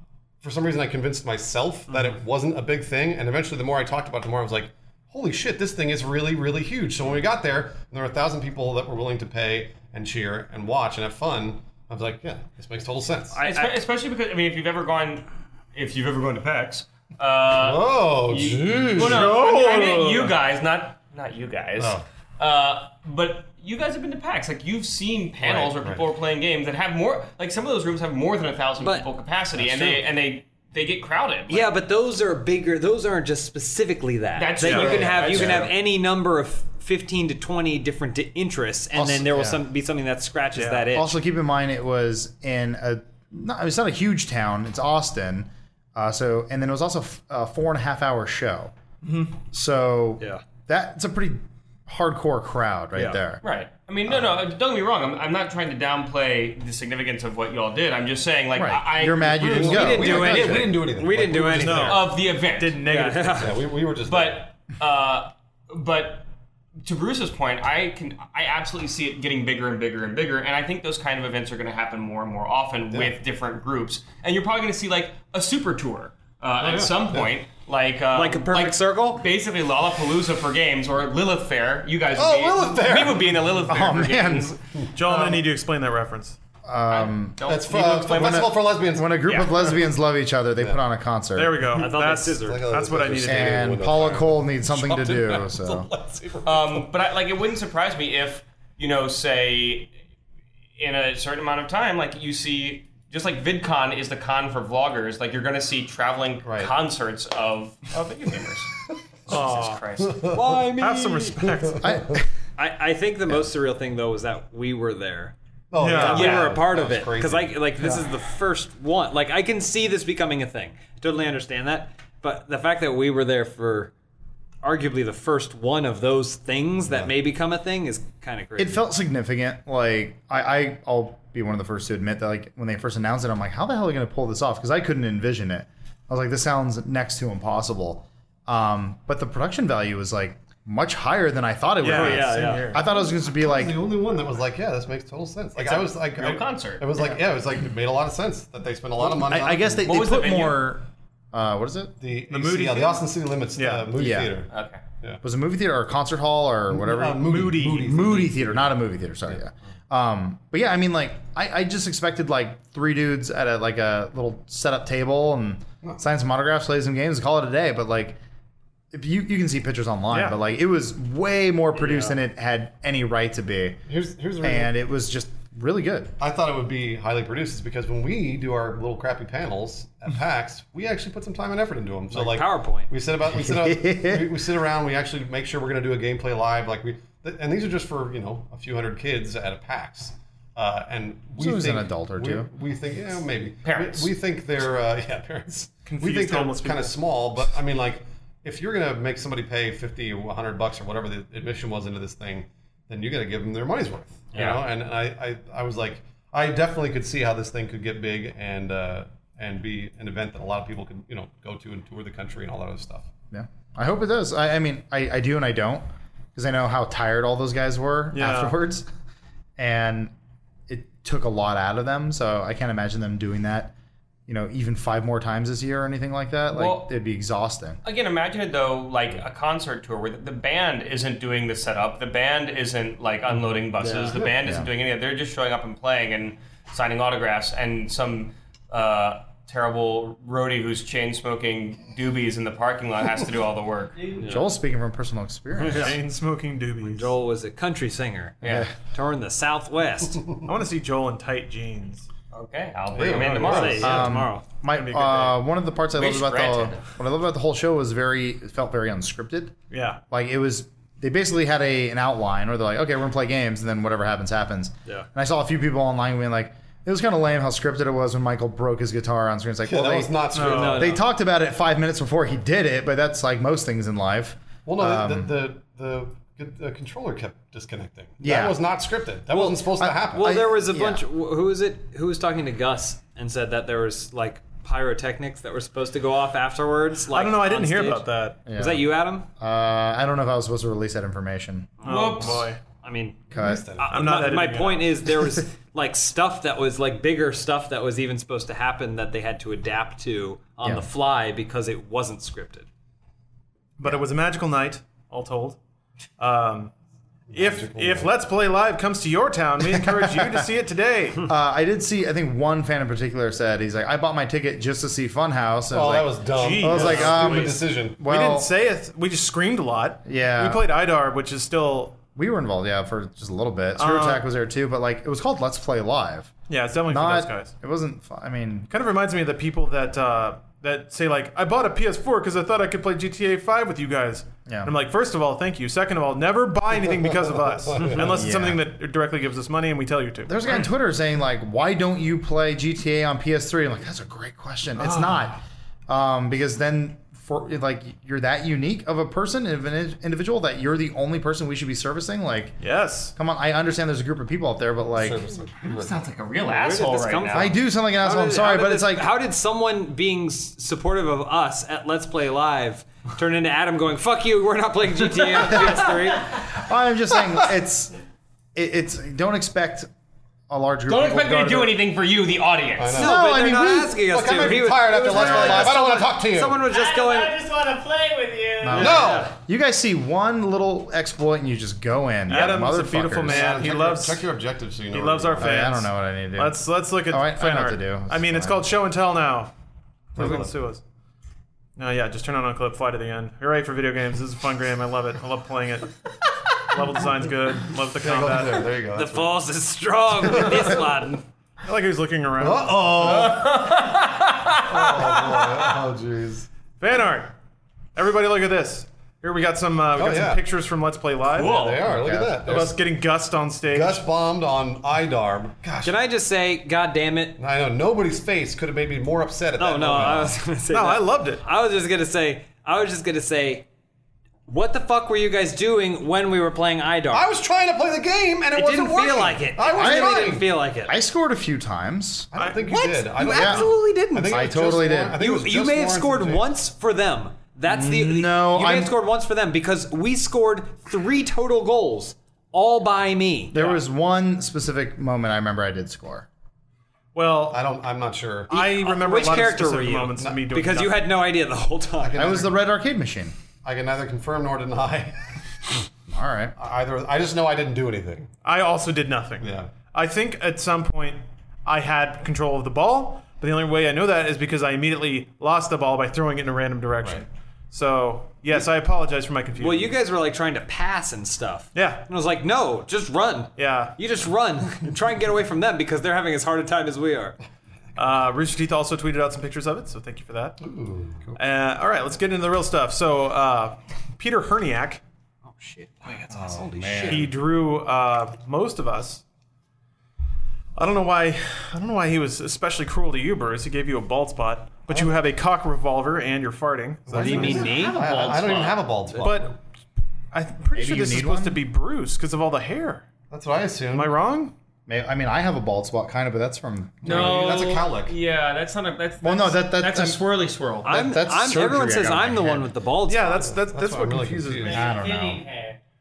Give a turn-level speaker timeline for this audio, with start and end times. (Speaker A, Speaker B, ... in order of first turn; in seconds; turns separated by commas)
Speaker A: 0.4-13.4, Speaker B: 13.3-13.8, Speaker C: 13.4-31.7, Speaker A: 17.5-19.4, Speaker D: 18.9-20.4, Speaker A: 21.8-22.0, Speaker A: 25.4-26.1, Speaker B: 28.8-29.1, Speaker A: 29.6-30.0, Speaker B: 31.5-41.2, Speaker C: 34.3-35.7, Speaker A: 34.6-35.7, Speaker E: 38.9-39.6, Speaker D: 40.5-40.9, Speaker E: 40.9-48.7, Speaker D: 49.0-49.3, Speaker E: 49.4-53.4, Speaker C: 53.4-59.9, Speaker E: 58.5-60.8, Speaker A: 59.5-62.1, Speaker B: 59.5-62.0, Speaker D: 61.6-63.6, Speaker C: 61.8-62.8, Speaker B: 62.8-63.6, Speaker A: 63.4-64.5, Speaker C: 64.0-66.3, Speaker C: 66.8-85.4, Speaker A: 76.6-77.3, Speaker B: 78.1-79.2, Speaker A: 82.1-83.4, Speaker E: 83.7-84.6, Speaker D: 84.9-86.4, Speaker E: 86.6-87.4, Speaker C: 86.9-88.5, Speaker A: 87.4-89.4, Speaker E: 88.0-91.7, Speaker C: 89.3-89.6, Speaker D: 91.3-94.0, Speaker B: 91.8-92.8, Speaker A: 92.3-96.9, Speaker E: 93.2-95.9, Speaker C: 96.4-99.9, Speaker C: 100.8-108.7, Speaker A: 106.4-106.7, Speaker C: 109.3-110.2, Speaker D: 109.3-109.8, Speaker A: 110.0-110.7, Speaker B: 110.3-111.4, Speaker D: 110.5-111.8, Speaker A: 111.4-112.2, Speaker E: 111.8-112.2, Speaker B: 112.6-115.3, Speaker A: 115.7-117.6, Speaker D: 115.8-116.3, Speaker B: 115.9-123.9, Speaker C: 116.1-116.5, Speaker B: 124.6-128.9, Speaker E: 128.6-143.8, Speaker D: 141.8-142.8, Speaker B: 141.8-142.7, Speaker A: 142.9-149.9, Speaker C: 145.6-146.8, Speaker E: 149.0-151.9, Speaker C: 149.8-150.8, Speaker A: 152.0-155.2, Speaker D: 152.3-153.9, Speaker E: 153.9-154.3, Speaker C: 154.5-154.8, Speaker E: 155.2-168.2, Speaker A: 156.7-158.7, Speaker D: 157.2-157.9, Speaker E: 168.9-173.8, Speaker D: 170.1-170.4, Speaker A: 173.9-174.7, Speaker E: 174.4-176.1, Speaker A: 176.2-213.1, Speaker B: 182.1-182.9, Speaker E: 183.2-184.4, Speaker E: 191.4-192.5, Speaker C: 193.6-194.1, Speaker D: 195.8-196.9, Speaker C: 204.3-204.6, Speaker E: 213.3-218.8, Speaker D: 218.1-218.6, Speaker E: 219.6-220.1, Speaker E: 220.7-223.7, Speaker E: 224.3-227.8, Speaker C: 226.5-226.9, Speaker C: 227.8-244.0, Speaker B: 233.8-234.2, Speaker E: 234.4-234.7, Speaker F: 243.9-244.5, Speaker B: 244.2-244.4, Speaker E: 244.2-246.0, Speaker D: 245.6-247.1, Speaker B: 246.8-250.2, Speaker C: 248.4-248.7, Speaker E: 248.4-248.7, Speaker D: 250.4-252.1, Speaker C: 252.3-254.0, Speaker A: 252.9-253.9, Speaker B: 253.4-254.4, Speaker D: 253.8-255.4, Speaker E: 253.8-259.5, Speaker C: 255.9-256.9, Speaker D: 259.7-260.0, Speaker E: 260.1-275.3, Speaker A: 269.6-270.9, Speaker D: 270.3-270.9, Speaker B: 270.4-271.0, Speaker A: 274.6-280.4, Speaker E: 278.2-278.6, Speaker E: 279.3-281.0, Speaker B: 280.1-289.2, Speaker D: 287.1-288.4, Speaker E: 288.4-291.7, Speaker D: 291.8-292.6, Speaker C: 291.8-292.5, Speaker B: 292.8-302.7, Speaker E: 293.3-293.7, Speaker A: 293.3-294.1, Speaker D: 293.9-295.0, Speaker E: 300.6-300.9, Speaker D: 303.8-305.6, Speaker D: 306.2-306.7, Speaker A: 307.3-308.1, Speaker D: 307.3-311.3, Speaker E: 309.6-310.4, Speaker E: 311.2-318.5, Speaker A: 315.7-318.0, Speaker D: 316.3-322.0, Speaker C: 316.9-317.2, Speaker E: 320.0-320.6, Speaker E: 322.1-326.3, Speaker D: 323.7-324.2, Speaker D: 326.5-327.5, Speaker E: 326.9-328.7, Speaker D: 328.7-340.6, Speaker E: 334.5-334.7, Speaker A: 337.3-338.3, Speaker E: 338.0-338.6, Speaker E: 340.3-352.6, Speaker D: 344.8-345.3, Speaker D: 352.6-353.1, Speaker E: 353.1-355.2, Speaker A: 354.9-356.0, Speaker C: 355.6-357.6, Speaker B: 356.4-366.4, Speaker E: 357.3-359.1, Speaker C: 365.4-365.6, Speaker E: 365.4-367.9, Speaker E: 368.5-369.9, Speaker E: 370.5-371.8, Speaker C: 370.9-373.0, Speaker A: 372.8-376.6, Speaker B: 372.9-377.4, Speaker E: 372.9-374.0, Speaker E: 374.9-375.9, Speaker F: 376.6-378.9, Speaker E: 378.6-383.5, Speaker B: 378.7-379.4, Speaker A: 378.7-379.3, Speaker D: 382.3-384.2, Speaker A: 383.2-385.6, Speaker D: 384.9-389.5, Speaker E: 385.4-388.7, Speaker D: 390.1-390.8, Speaker A: 390.1-390.5, Speaker D: 391.8-396.0, Speaker D: 396.5-398.7, Speaker A: 398.0-399.4, Speaker B: 398.9-401.2, Speaker A: 400.2-400.8, Speaker D: 401.6-403.2, Speaker A: 402.4-403.7, Speaker C: 403.0-405.6, Speaker A: 404.6-406.5, Speaker D: 406.8-407.3, Speaker D: 407.9-411.6, Speaker A: 409.9-410.4, Speaker C: 411.3-411.9, Speaker A: 411.4-412.8, Speaker E: 411.8-412.6, Speaker D: 412.4-414.0, Speaker A: 413.7-415.9, Speaker B: 415.8-417.4, Speaker A: 417.4-420.4, Speaker B: 419.6-423.6, Speaker D: 420.7-421.4, Speaker B: 424.5-427.3, Speaker A: 427.1-430.5, Speaker B: 428.5-430.9, Speaker E: 429.7-432.3, Speaker A: 432.3-436.5, Speaker D: 432.3-432.8, Speaker B: 432.6-434.6, Speaker E: 433.2-435.2, Speaker B: 435.1-443.5, Speaker E: 437.7-438.9, Speaker E: 443.5-446.3, Speaker D: 443.5-443.8, Speaker D: 447.1-447.6, Speaker A: 447.5-448.5, Speaker D: 448.5-451.1, Speaker B: 448.5-452.4, Speaker A: 450.2-450.4, Speaker A: 452.0-452.6, Speaker E: 452.1-453.4, Speaker A: 453.6-455.2, Speaker E: 456.1-456.5, Speaker A: 456.6-458.3, Speaker D: 458.4-469.9, Speaker A: 459.4-459.7, Speaker B: 469.6-477.4, Speaker D: 471.7-472.1, Speaker D: 473.6-474.0, Speaker D: 477.9-480.6, Speaker A: 480.6-481.4, Speaker D: 481.4-485.0, Speaker B: 485.4-487.3, Speaker E: 486.3-487.3, Speaker D: 487.0-489.2, Speaker D: 490.8-497.8, Speaker A: 497.1-499.5, Speaker B: 497.2-498.0, Speaker E: 497.4-498.8, Speaker D: 499.1-499.5, Speaker D: 500.3-503.1, Speaker E: 500.7-501.6, Speaker A: 503.3-504.2, Speaker D: 503.9-504.5, Speaker E: 504.9-507.6, Speaker A: 507.0-508.2, Speaker C: 507.0-510.9, Speaker E: 509.2-510.2, Speaker B: 510.8-513.5, Speaker E: 510.9-512.7, Speaker D: 513.1-514.9, Speaker A: 513.4-514.9, Speaker F: 514.6-515.8, Speaker E: 514.7-515.4